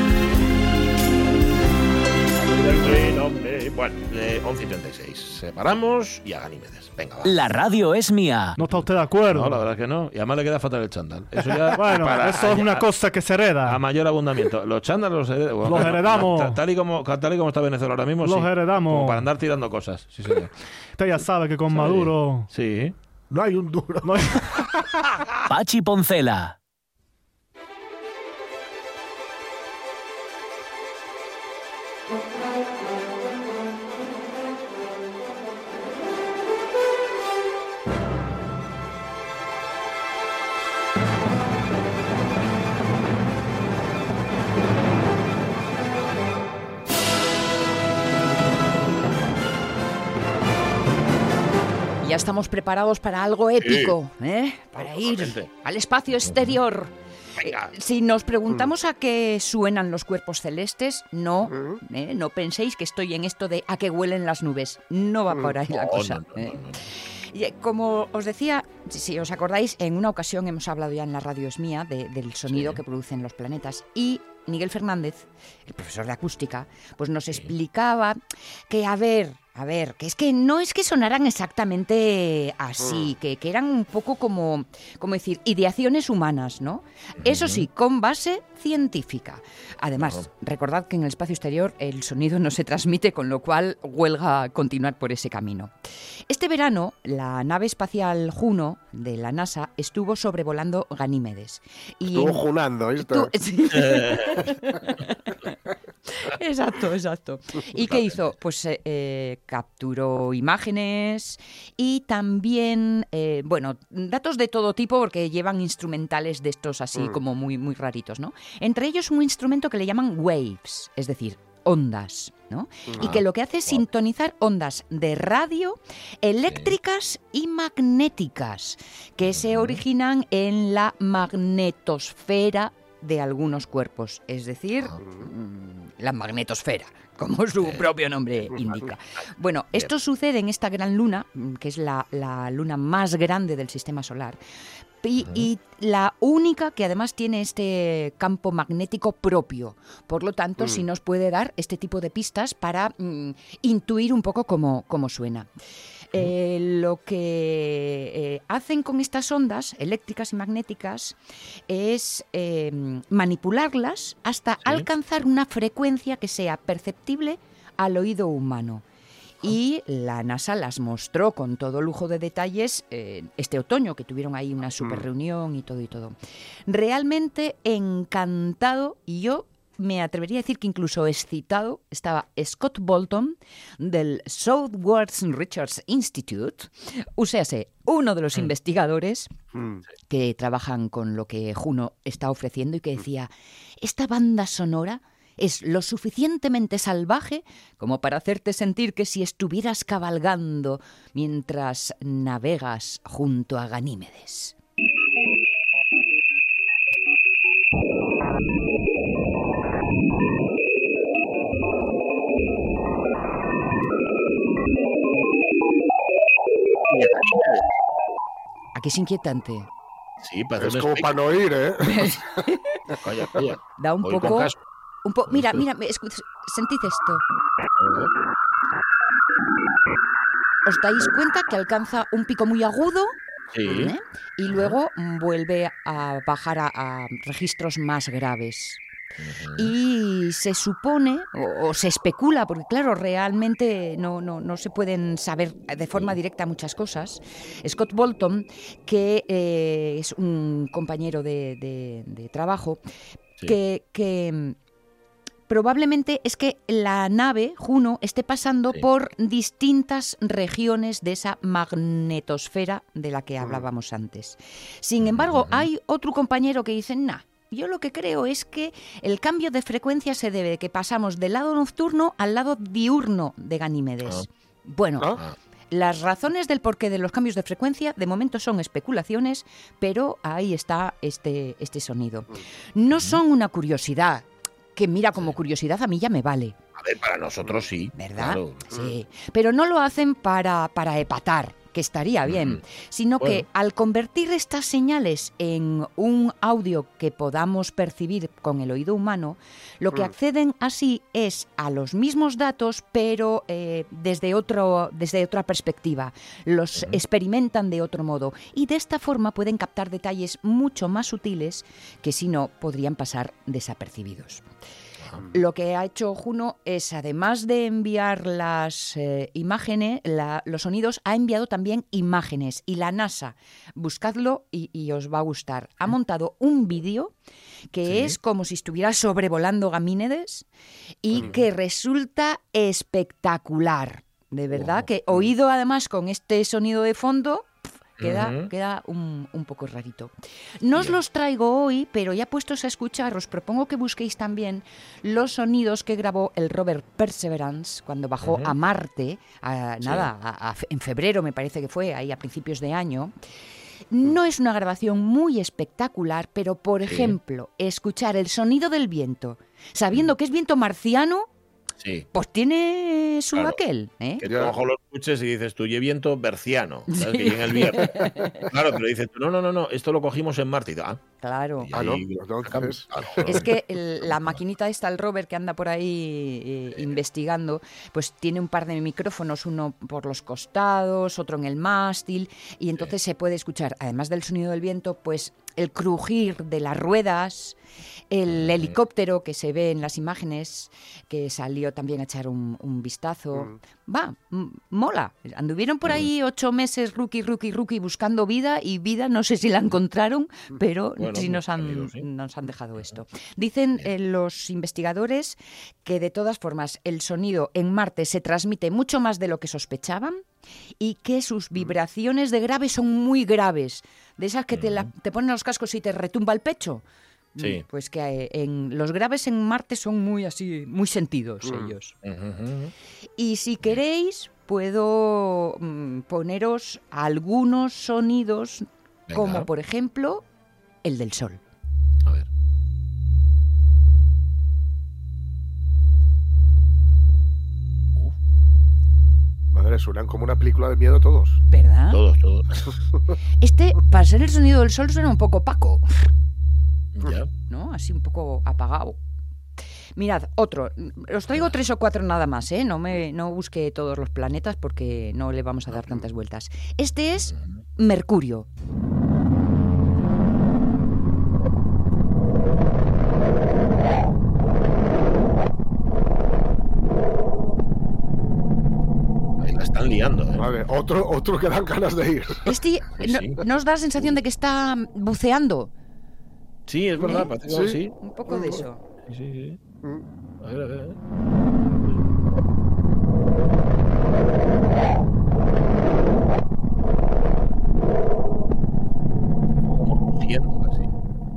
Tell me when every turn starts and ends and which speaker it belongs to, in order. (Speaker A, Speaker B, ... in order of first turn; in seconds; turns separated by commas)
Speaker A: 2.4-7.3, Speaker B: 7.2-8.6, Speaker C: 8.6-9.6, Speaker A: 8.7-13.0, Speaker C: 11.7-13.8, Speaker A: 13.5-23.0, Speaker C: 15.7-16.6, Speaker C: 18.2-19.3, Speaker C: 21.0-22.5, Speaker D: 23.3-24.1, Speaker C: 24.1-24.4, Speaker B: 25.5-26.6, Speaker E: 52.0-66.6, Speaker A: 53.6-54.0, Speaker A: 54.8-55.5, Speaker A: 56.2-56.6, Speaker A: 57.4-57.7, Speaker D: 61.5-61.8, Speaker A: 65.7-66.8, Speaker E: 67.3-78.2, Speaker A: 72.5-72.8, Speaker E: 78.7-95.7, Speaker D: 82.8-83.1, Speaker A: 87.2-87.7, Speaker A: 90.0-90.3, Speaker E: 96.3-102.4, Speaker D: 102.1-103.3, Speaker E: 103.1-105.5, Speaker A: 103.8-104.4, Speaker E: 106.1-144.4, Speaker A: 107.8-108.2, Speaker D: 122.9-123.1, Speaker A: 123.0-123.8, Speaker A: 126.5-126.7, Speaker A: 129.2-129.8, Speaker D: 135.0-135.3, Speaker A: 138.4-138.9, Speaker E: 145.0-155.5, Speaker A: 145.2-145.5, Speaker D: 150.6-150.8, Speaker E: 156.1-161.2, Speaker E: 161.7-168.8, Speaker E: 169.4-176.2, Speaker D: 174.8-175.1, Speaker E: 176.7-189.3, Speaker D: 189.5-189.8, Speaker E: 190.1-204.6, Speaker A: 216.9-217.6, Speaker E: 218.8-219.7, Speaker A: 220.2-221.2, Speaker D: 220.6-222.2, Speaker E: 221.9-222.6, Speaker A: 223.0-224.6, Speaker E: 223.8-224.5, Speaker E: 225.1-227.2, Speaker A: 225.3-225.6, Speaker A: 227.8-228.1, Speaker E: 230.7-233.1, Speaker A: 233.5-233.9, Speaker D: 233.7-233.9, Speaker E: 233.7-238.8, Speaker A: 234.5-234.8, Speaker A: 239.2-239.7, Speaker E: 239.6-252.8, Speaker E: 253.5-254.6, Speaker E: 255.5-275.2, Speaker A: 265.0-265.7, Speaker E: 275.7-286.6, Speaker A: 282.9-283.2, Speaker A: 286.8-288.7, Speaker E: 288.0-314.4, Speaker A: 292.3-292.6, Speaker E: 315.3-327.1, Speaker E: 327.7-330.5, Speaker A: 327.9-328.2, Speaker E: 331.0-353.1, Speaker A: 331.1-331.4, Speaker A: 334.5-335.3, Speaker A: 338.0-338.5, Speaker A: 348.2-348.5, Speaker A: 349.8-350.1, Speaker E: 353.9-361.3, Speaker A: 356.9-357.2, Speaker A: 361.8-362.1, Speaker E: 362.1-364.2, Speaker A: 364.2-371.0, Speaker D: 364.3-364.5, Speaker E: 366.9-368.5, Speaker E: 371.2-371.7, Speaker A: 371.6-373.5, Speaker D: 371.7-373.5, Speaker E: 373.3-387.6, Speaker A: 374.0-374.4, Speaker A: 376.7-377.0, Speaker E: 388.1-410.2, Speaker A: 388.3-388.8, Speaker A: 401.0-402.1, Speaker E: 410.8-416.8, Speaker A: 414.5-414.9, Speaker E: 417.4-421.9, Speaker A: 417.4-417.6, Speaker D: 421.4-421.8, Speaker A: 422.0-422.7, Speaker E: 423.2-430.2, Speaker A: 429.1-429.5, Speaker E: 430.8-431.4, Speaker D: 439.5-441.4, Speaker E: 441.5-442.0, Speaker A: 441.9-442.7, Speaker E: 443.4-446.1, Speaker A: 447.0-447.3, Speaker E: 447.5-449.0, Speaker E: 450.0-458.5, Speaker A: 455.7-456.1, Speaker A: 457.3-457.6, Speaker A: 469.4-470.5, Speaker D: 470.4-472.5, Speaker E: 472.5-475.7, Speaker A: 473.0-473.4, Speaker A: 476.7-477.9, Speaker D: 477.0-478.6, Speaker E: 477.0-477.3, Speaker E: 478.0-478.8, Speaker A: 479.1-479.6, Speaker A: 480.4-481.0, Speaker A: 489.7-490.9